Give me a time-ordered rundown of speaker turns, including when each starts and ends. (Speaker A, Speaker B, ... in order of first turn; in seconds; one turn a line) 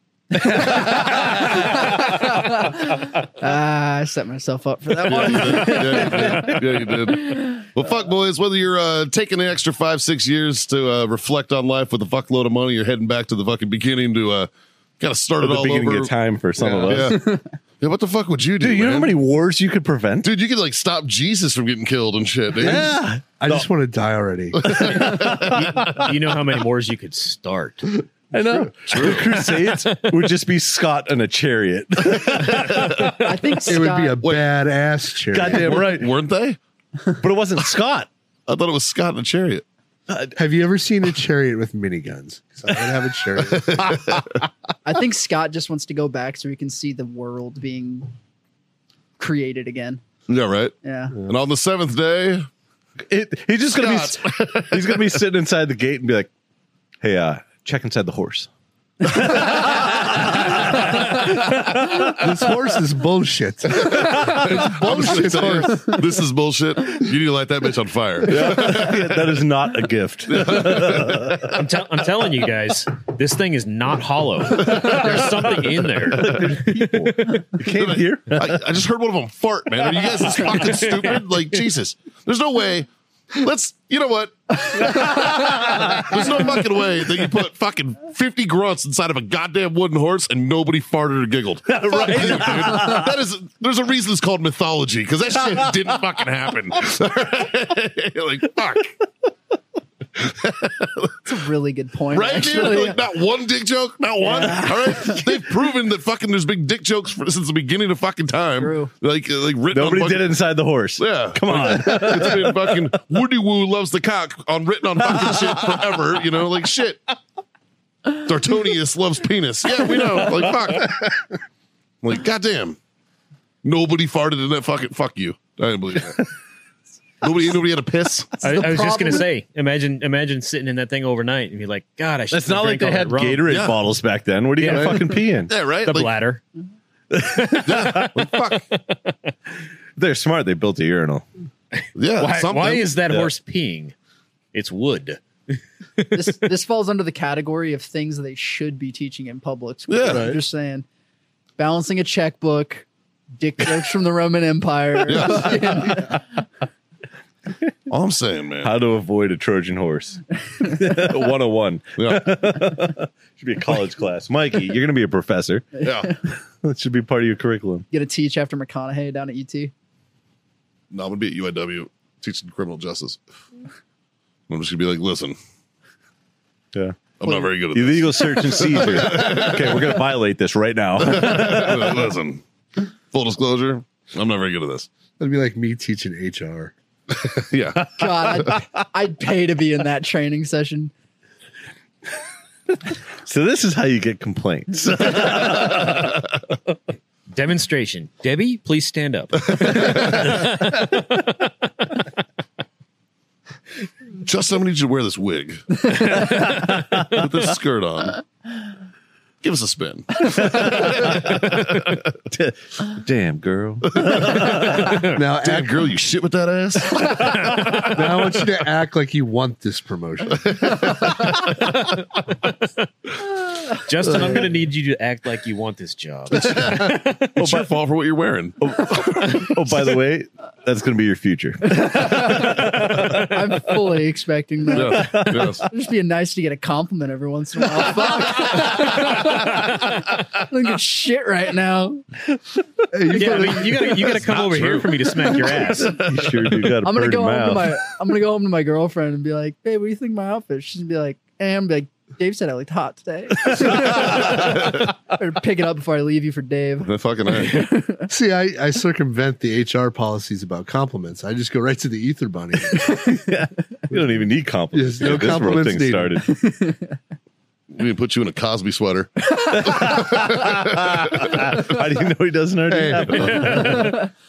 Speaker A: 0.3-6.6
Speaker B: 0.5-2.7
Speaker C: 5.0-14.5
Speaker B: 5.2-6.7
Speaker C: 15.0-16.1
Speaker B: 15.4-17.2
Speaker D: 16.6-17.1
Speaker C: 16.8-17.2
Speaker A: 16.9-17.4
Speaker C: 17.8-19.1
Speaker B: 18.6-20.3
Speaker C: 20.2-22.9
Speaker B: 22.6-23.7
Speaker D: 22.6-25.1
Speaker C: 24.6-25.6
Speaker B: 24.7-26.1
Speaker E: 25.4-28.0
Speaker B: 28.3-33.1
Speaker D: 28.4-28.7
Speaker C: 28.9-29.4
Speaker E: 29.3-30.3
Speaker C: 32.1-33.1
Speaker A: 33.2-34.2
Speaker D: 33.7-35.8
Speaker C: 34.2-34.5
Speaker B: 35.3-36.1
Speaker C: 35.4-36.6
Speaker B: 37.2-38.1
Speaker C: 38.5-39.6
Speaker B: 40.1-40.3
Speaker D: 40.4-44.0
Speaker C: 43.5-44.4
Speaker A: 44.8-48.1
Speaker A: 49.2-50.0
Speaker C: 50.3-50.7
Speaker A: 50.8-51.1
Speaker C: 51.3-52.5
Speaker B: 53.1-56.3
Speaker C: 53.7-55.2
Speaker B: 57.0-58.5
Speaker B: 59.0-62.2
Speaker D: 62.2-65.8
Speaker C: 63.9-69.4
Speaker B: 64.2-65.2
Speaker B: 68.2-71.5
Speaker C: 70.3-71.6
Speaker E: 71.5-76.9
Speaker C: 74.6-75.7
Speaker B: 76.0-78.4
Speaker C: 77.7-99.0
Speaker E: 79.9-81.2
Speaker A: 84.7-85.5
Speaker B: 84.9-86.2
Speaker B: 91.7-93.2
Speaker B: 95.4-95.8
Speaker C: 100.2-101.2
Speaker A: 101.2-103.0
Speaker C: 102.1-110.3
Speaker A: 104.2-105.5
Speaker A: 108.6-108.9
Speaker B: 109.7-112.8
Speaker C: 111.0-117.0
Speaker B: 115.0-115.9
Speaker C: 118.1-121.1
Speaker B: 119.8-121.0
Speaker C: 122.0-122.8
Speaker C: 123.6-126.2
Speaker C: 127.2-128.4
Speaker A: 128.4-129.2
Speaker E: 128.4-133.6
Speaker B: 132.3-135.5
Speaker C: 133.5-133.8
Speaker E: 134.6-135.2
Speaker C: 135.5-136.1
Speaker E: 135.8-136.4
Speaker B: 137.1-138.2
Speaker C: 137.6-138.7
Speaker E: 138.7-139.2
Speaker B: 140.0-141.2
Speaker C: 141.9-143.3
Speaker E: 142.2-143.9
Speaker E: 144.5-145.2
Speaker E: 146.0-146.3
Speaker A: 146.1-150.8
Speaker C: 149.9-150.3
Speaker D: 150.1-150.4
Speaker A: 151.6-152.8
Speaker A: 153.4-156.2
Speaker C: 155.1-156.0
Speaker C: 157.9-158.7
Speaker B: 158.6-165.8
Speaker A: 160.7-160.9
Speaker C: 162.0-162.7
Speaker A: 165.8-166.1
Speaker C: 165.8-166.1
Speaker B: 166.6-167.8
Speaker A: 167.9-169.7
Speaker C: 170.9-173.2
Speaker C: 174.5-175.3
Speaker B: 176.7-177.0
Speaker C: 177.2-179.9
Speaker B: 177.7-182.1
Speaker C: 181.0-182.4
Speaker C: 183.1-184.9
Speaker D: 185.2-186.7
Speaker C: 187.1-188.6
Speaker A: 187.9-190.9
Speaker B: 192.9-196.2
Speaker E: 197.3-201.5
Speaker C: 199.6-200.2
Speaker C: 204.2-206.3
Speaker E: 206.1-206.6
Speaker B: 206.2-207.2
Speaker C: 207.1-208.2
Speaker C: 209.4-211.9
Speaker B: 210.2-215.1
Speaker C: 214.0-217.3
Speaker D: 214.9-215.8
Speaker B: 217.0-217.5
Speaker E: 217.4-218.0
Speaker D: 217.8-221.0
Speaker C: 220.4-221.3
Speaker E: 223.7-227.5
Speaker C: 226.3-229.5
Speaker B: 227.4-227.7
Speaker B: 228.6-233.2
Speaker A: 231.7-242.1
Speaker C: 234.7-235.6
Speaker B: 235.0-235.6
Speaker D: 242.9-244.1
Speaker E: 243.2-246.0
Speaker C: 244.0-246.5
Speaker B: 245.8-247.8
Speaker A: 246.8-258.1
Speaker B: 253.5-254.7
Speaker C: 256.8-257.7
Speaker D: 258.1-262.9
Speaker B: 263.1-266.4
Speaker D: 264.7-266.2
Speaker A: 266.2-266.9
Speaker C: 267.7-271.8
Speaker A: 269.4-270.0
Speaker B: 269.5-274.0
Speaker C: 272.7-273.9
Speaker E: 273.1-273.9
Speaker D: 273.6-273.8
Speaker A: 273.6-274.1